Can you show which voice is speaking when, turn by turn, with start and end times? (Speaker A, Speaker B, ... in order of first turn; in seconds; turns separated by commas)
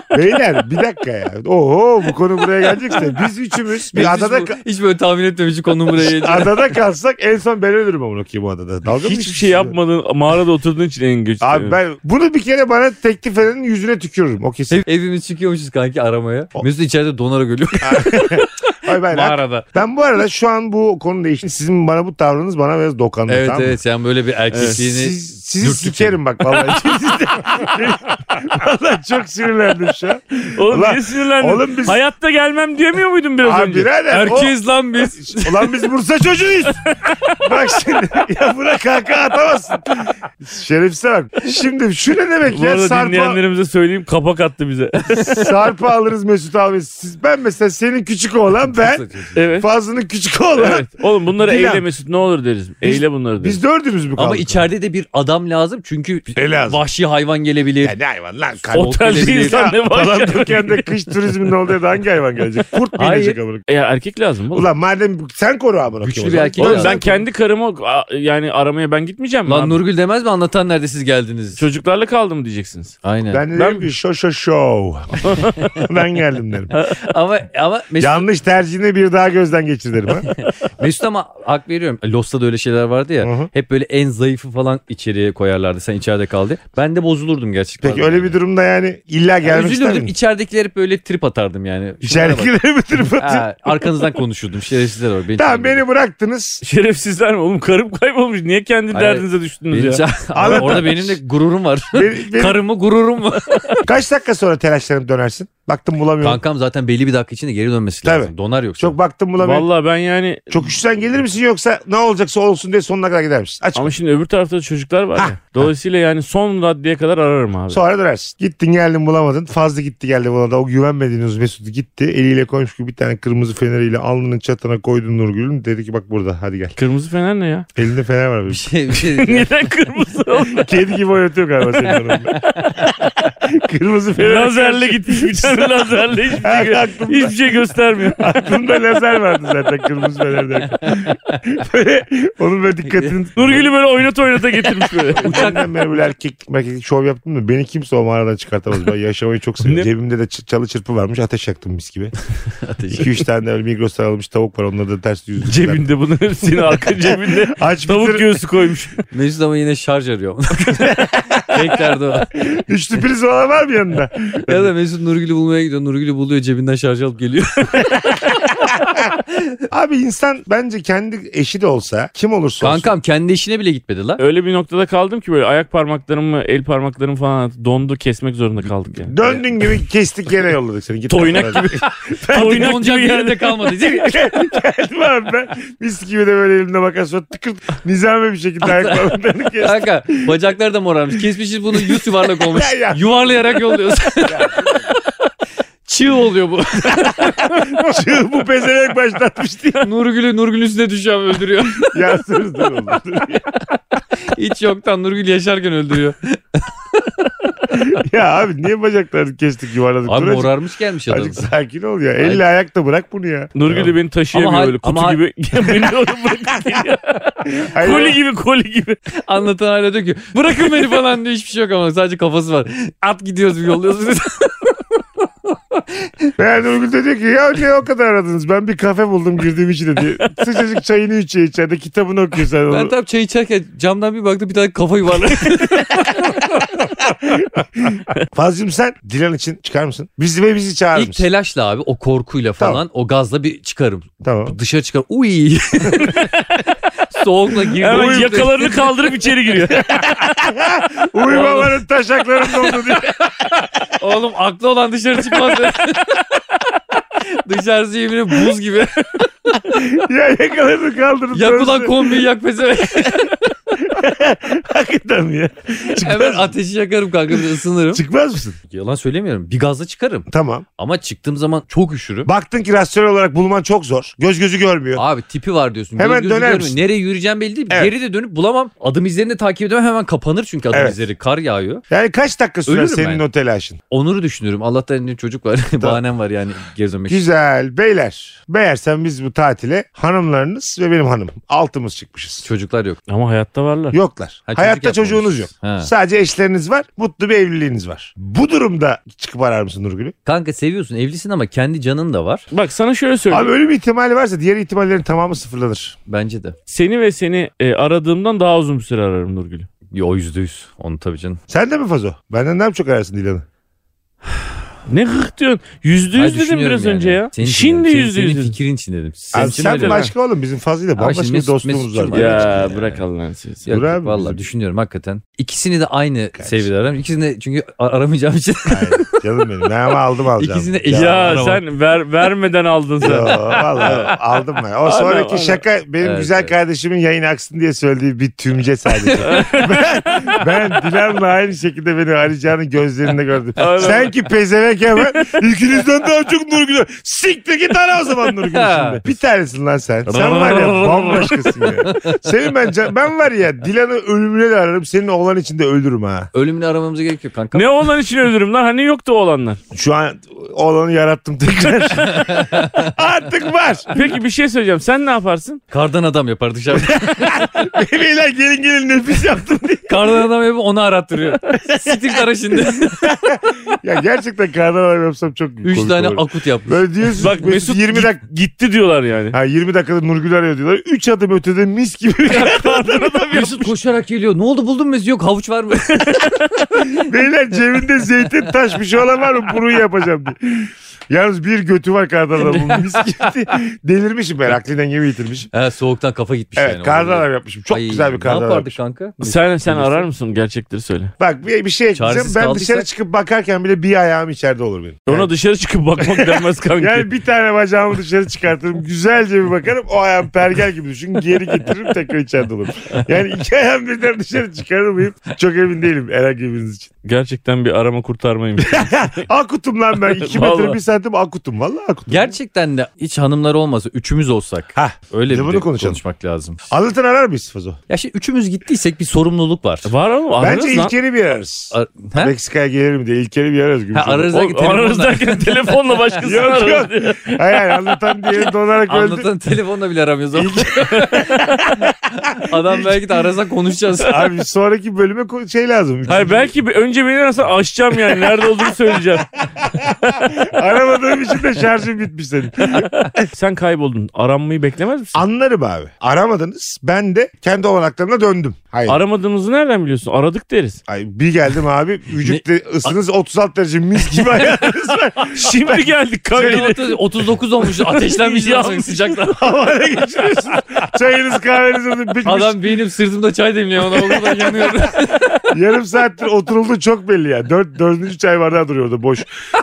Speaker A: 0.1-4.6, Speaker B: 3.9-6.7, Speaker A: 5.9-9.8, Speaker C: 8.8-11.8, Speaker A: 11.4-14.8, Speaker B: 14.7-19.6, Speaker A: 17.8-23.8, Speaker B: 23.3-26.9, Speaker C: 24.5-24.8, Speaker A: 24.7-32.0, Speaker C: 30.5-33.9, Speaker A: 33.4-36.9, Speaker B: 34.1-35.8, Speaker C: 36.9-37.4, Speaker A: 37.4-43.4, Speaker C: 42.5-45.5, Speaker A: 45.2-49.0, Speaker B: 48.7-49.4, Speaker C: 49.3-49.7, Speaker A: 49.6-50.9, Speaker C: 50.5-53.6, Speaker A: 51.4-51.8, Speaker A: 52.8-54.6, Speaker B: 54.1-58.0, Speaker A: 56.3-56.8, Speaker A: 57.8-63.6, Speaker B: 58.7-59.7, Speaker C: 58.7-61.0, Speaker B: 63.0-63.4, Speaker C: 63.7-64.7, Speaker A: 64.5-67.1, Speaker B: 66.0-67.2, Speaker C: 66.6-69.8, Speaker B: 69.5-71.6, Speaker C: 71.6-73.0, Speaker B: 73.0-73.4, Speaker A: 73.3-76.7, Speaker C: 73.5-73.8, Speaker C: 75.2-75.8, Speaker B: 76.8-78.2, Speaker A: 78.0-80.3, Speaker B: 80.2-88.4, Speaker A: 83.2-83.5, Speaker A: 87.8-90.1, Speaker B: 89.4-92.5, Speaker A: 92.0-94.0, Speaker B: 93.2-95.8, Speaker A: 95.4-96.6, Speaker C: 96.6-100.8, Speaker B: 98.9-103.8, Speaker A: 100.3-101.2, Speaker A: 101.9-102.6, Speaker A: 103.8-106.4, Speaker B: 106.2-109.0, Speaker A: 108.0-109.7, Speaker C: 109.4-110.7, Speaker A: 110.5-113.9, Speaker C: 113.7-117.8, Speaker A: 115.2-115.7, Speaker A: 117.7-126.8, Speaker C: 126.8-127.7, Speaker A: 127.7-128.6, Speaker B: 128.5-129.5, Speaker C: 129.0-130.8, Speaker A: 130.5-132.3, Speaker C: 131.9-132.1, Speaker A: 133.0-143.7, Speaker C: 134.2-138.4, Speaker B: 140.8-141.4, Speaker B: 142.9-143.1, Speaker C: 143.3-145.5, Speaker A: 145.1-152.1, Speaker B: 145.2-145.6, Speaker B: 152.6-153.2, Speaker A: 152.9-155.8, Speaker C: 155.4-159.0, Speaker A: 156.7-158.3, Speaker B: 159.1-162.4, Speaker A: 160.8-161.6, Speaker A: 162.3-164.7, Speaker B: 164.5-168.2, Speaker B: 168.7-169.4, Speaker A: 169.7-172.9, Speaker B: 172.6-174.2, Speaker C: 174.2-179.1, Speaker A: 179.1-182.8, Speaker C: 181.1-183.5, Speaker B: 182.3-184.3, Speaker A: 183.8-190.4, Speaker B: 188.6-189.1, Speaker B: 189.6-194.9, Speaker A: 191.8-194.9, Speaker B: 195.8-197.7, Speaker A: 197.2-199.8, Speaker B: 199.8-202.0, Speaker A: 201.8-203.6, Speaker B: 204.2-207.1, Speaker A: 207.7-210.5, Speaker B: 210.1-211.5, Speaker A: 211.1-213.9, Speaker B: 212.2-212.4, Speaker C: 213.5-219.0, Speaker B: 214.3-215.2, Speaker A: 217.5-218.2, Speaker B: 219.1-225.0, Speaker B: 225.5-226.3, Speaker A: 226.4-232.9, Speaker B: 232.7-236.5, Speaker A: 236.2-241.2, Speaker B: 240.9-246.2, Speaker A: 244.2-244.6, Speaker B: 247.1-248.9, Speaker C: 247.8-250.0, Speaker A: 247.8-248.7, Speaker A: 249.7-253.8, Speaker B: 251.3-251.7, Speaker B: 254.0-256.2, Speaker B: 257.2-259.6, Speaker A: 259.7-262.2, Speaker B: 261.3-263.4, Speaker A: 263.8-266.5, Speaker B: 265.9-268.0, Speaker A: 267.3-268.6, Speaker B: 268.7-272.3, Speaker A: 270.3-270.6, Speaker A: 272.2-275.0, Speaker B: 274.9-281.8, Speaker A: 276.0-276.8, Speaker A: 280.7-281.0, Speaker A: 281.9-283.8, Speaker B: 282.6-283.2, Speaker B: 283.9-287.2, Speaker A: 287.1-292.4, Speaker B: 292.4-293.0, Speaker C: 293.1-294.0, Speaker A: 293.9-300.1, Speaker B: 294.5-295.9, Speaker B: 300.2-302.5, Speaker C: 302.5-303.5, Speaker A: 303.3-305.9, Speaker B: 306.1-306.5, Speaker C: 306.7-309.7, Speaker B: 309.9-311.4, Speaker A: 311.5-313.4, Speaker C: 314.9-318.6, Speaker B: 316.1-320.1, Speaker A: 319.3-322.7, Speaker C: 319.4-320.1, Speaker B: 321.0-323.0, Speaker C: 322.1-323.7, Speaker B: 323.6-329.1, Speaker A: 323.7-324.4, Speaker A: 326.4-326.7, Speaker A: 328.7-331.4, Speaker B: 330.4-331.6, Speaker C: 330.9-334.1, Speaker A: 333.0-356.3, Speaker C: 334.8-335.6, Speaker B: 336.0-336.5, Speaker B: 339.1-339.6, Speaker C: 339.2-340.4, Speaker C: 343.6-344.1, Speaker C: 345.0-345.4, Speaker B: 348.5-349.0, Speaker B: 350.1-352.2, Speaker B: 356.3-357.7, Speaker C: 357.5-359.6, Speaker A: 359.7-363.9, Speaker B: 362.0-362.9, Speaker C: 363.9-365.6, Speaker B: 365.7-367.5, Speaker A: 366.7-370.2, Speaker B: 369.9-373.1, Speaker A: 371.7-378.2, Speaker B: 375.6-376.8, Speaker C: 377.2-379.4, Speaker A: 379.3-383.7, Speaker C: 382.4-383.5, Speaker B: 383.3-387.0, Speaker A: 387.0-395.5, Speaker B: 395.5-400.1, Speaker A: 396.6-398.8, Speaker C: 399.2-401.1, Speaker A: 401.2-405.3, Speaker B: 401.9-402.9, Speaker C: 405.1-407.1, Speaker A: 406.0-416.9, Speaker C: 417.0-419.2, Speaker A: 418.6-422.3, Speaker C: 420.2-420.8, Speaker B: 422.1-426.7, Speaker A: 424.7-426.0, Speaker A: 426.7-427.8, Speaker B: 427.9-429.9, Speaker C: 429.9-430.9, Speaker A: 430.4-434.3, Speaker B: 431.7-432.3, Speaker B: 433.9-436.0, Speaker C: 434.3-437.4, Speaker A: 436.2-439.3, Speaker B: 438.9-444.2, Speaker A: 440.3-441.9, Speaker C: 441.0-441.6, Speaker A: 442.5-443.1, Speaker A: 444.0-446.5, Speaker C: 446.1-449.3, Speaker A: 449.6-453.3, Speaker C: 453.3-455.2, Speaker A: 455.1-459.0, Speaker C: 458.9-460.8, Speaker A: 460.9-466.6, Speaker B: 462.2-462.9, Speaker C: 465.3-467.0, Speaker B: 466.3-469.3, Speaker C: 467.6-469.4, Speaker A: 469.3-472.7, Speaker B: 472.2-475.4, Speaker A: 473.9-474.7, Speaker A: 475.5-479.3